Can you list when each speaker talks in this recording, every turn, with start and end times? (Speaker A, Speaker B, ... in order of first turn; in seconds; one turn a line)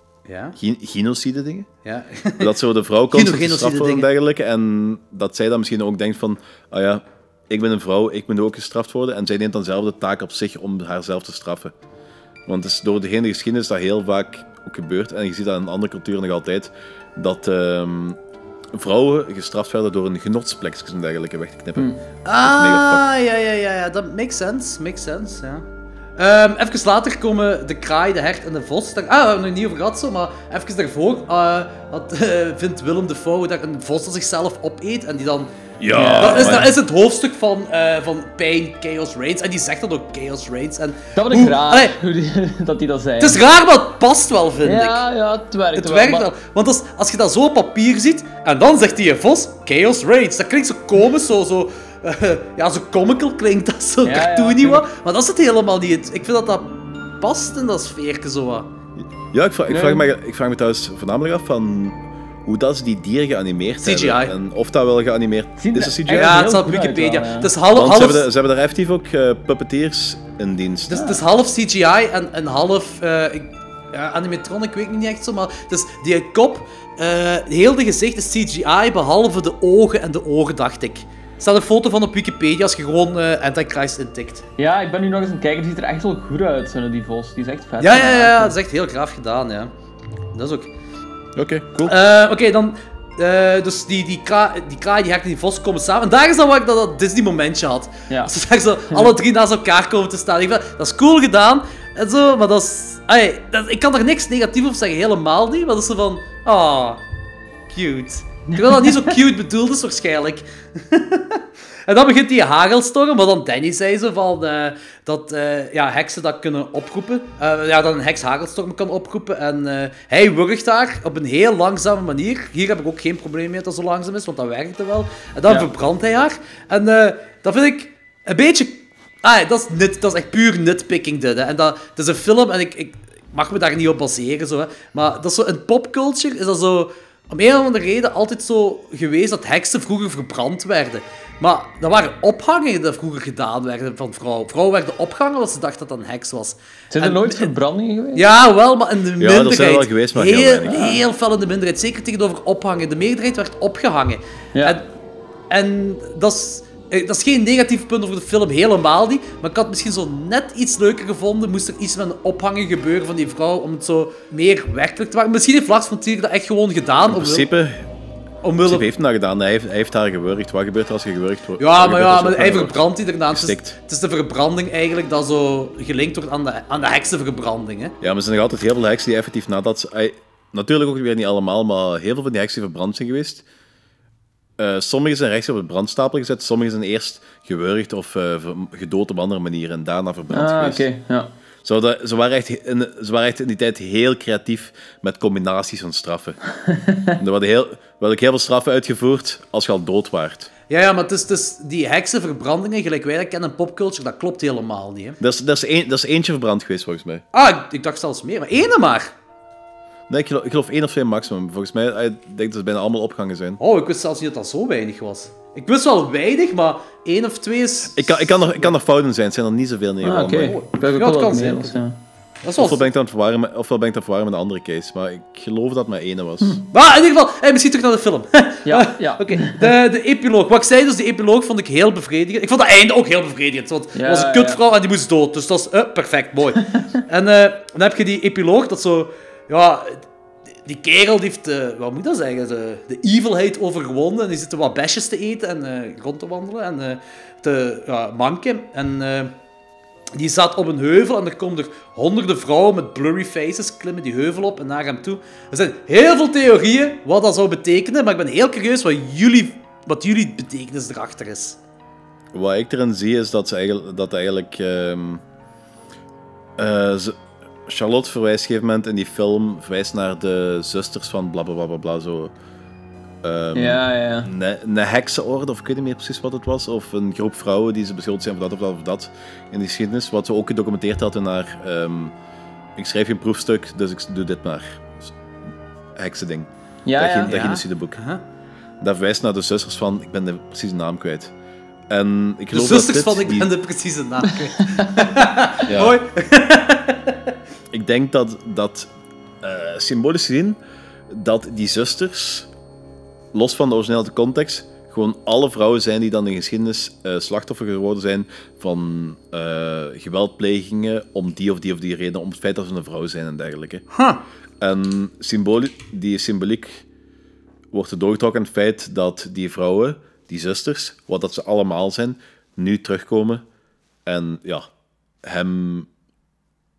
Speaker A: 0.3-0.6
Speaker B: 0.6-1.7
Speaker A: 1.8-2.5
Speaker B: 2.4-11.7
Speaker A: 3.1-4.1
Speaker B: 12.5-18.2
Speaker B: 18.7-21.9
Speaker A: 22.2-25.6
Speaker B: 22.4-23.1
Speaker A: 26.2-35.5
Speaker B: 35.8-36.7
Speaker C: 35.9-36.7
Speaker A: 36.2-42.0
Speaker C: 41.1-43.4
Speaker A: 43.2-45.0
Speaker C: 44.6-46.3
Speaker A: 45.8-58.7
Speaker C: 54.0-54.9
Speaker B: 59.3-66.5
Speaker C: 59.7-60.1
Speaker A: 63.8-64.3
Speaker C: 65.6-67.5
Speaker A: 66.1-68.3
Speaker B: 67.7-71.0
Speaker A: 70.9-84.4
Speaker C: 70.9-71.2
Speaker C: 84.6-88.5
Speaker A: 87.8-89.7
Speaker A: 90.3-90.7
Speaker B: 91.4-92.0
Speaker A: 91.8-107.0
Speaker A: 107.7-147.5
Speaker C: 108.5-109.2
Speaker C: 146.9-148.3
Speaker A: 148.2-154.8
Speaker B: 149.2-150.9
Speaker C: 150.7-151.0
Speaker C: 154.6-154.8
Speaker A: 155.5-167.5
Speaker B: 167.1-167.9
Speaker A: 168.4-168.9
Speaker B: 168.7-173.8
Speaker A: 171.6-177.9
Speaker B: 178.0-183.4
Speaker B: 184.6-190.8
Speaker C: 190.3-191.3
Speaker B: 191.6-196.4
Speaker C: 196.7-197.2
Speaker B: 197.2-200.5
Speaker A: 200.7-205.2
Speaker B: 205.2-207.2
Speaker A: 207.3-209.1
Speaker B: 210.1-213.6
Speaker A: 213.6-218.7
Speaker B: 217.9-220.6
Speaker C: 220.0-222.0
Speaker A: 220.4-221.8
Speaker A: 222.4-222.9
Speaker B: 222.6-226.6
Speaker A: 226.7-240.0
Speaker C: 228.7-229.7
Speaker C: 233.9-234.6
Speaker A: 240.7-249.3
Speaker A: 250.2-261.6
Speaker B: 262.3-265.2
Speaker B: 266.6-272.3
Speaker B: 273.2-282.1
Speaker C: 273.6-274.3
Speaker B: 282.8-285.1
Speaker B: 286.0-288.0
Speaker C: 286.9-287.4
Speaker A: 287.3-288.2
Speaker B: 288.8-291.3
Speaker B: 291.9-293.5
Speaker A: 292.5-297.2
Speaker B: 295.7-296.0
Speaker B: 297.7-298.9
Speaker B: 299.4-302.5
Speaker B: 303.3-313.9
Speaker A: 313.9-314.2
Speaker B: 314.6-316.8
Speaker B: 317.7-323.4
Speaker B: 324.1-324.7
Speaker B: 325.2-325.9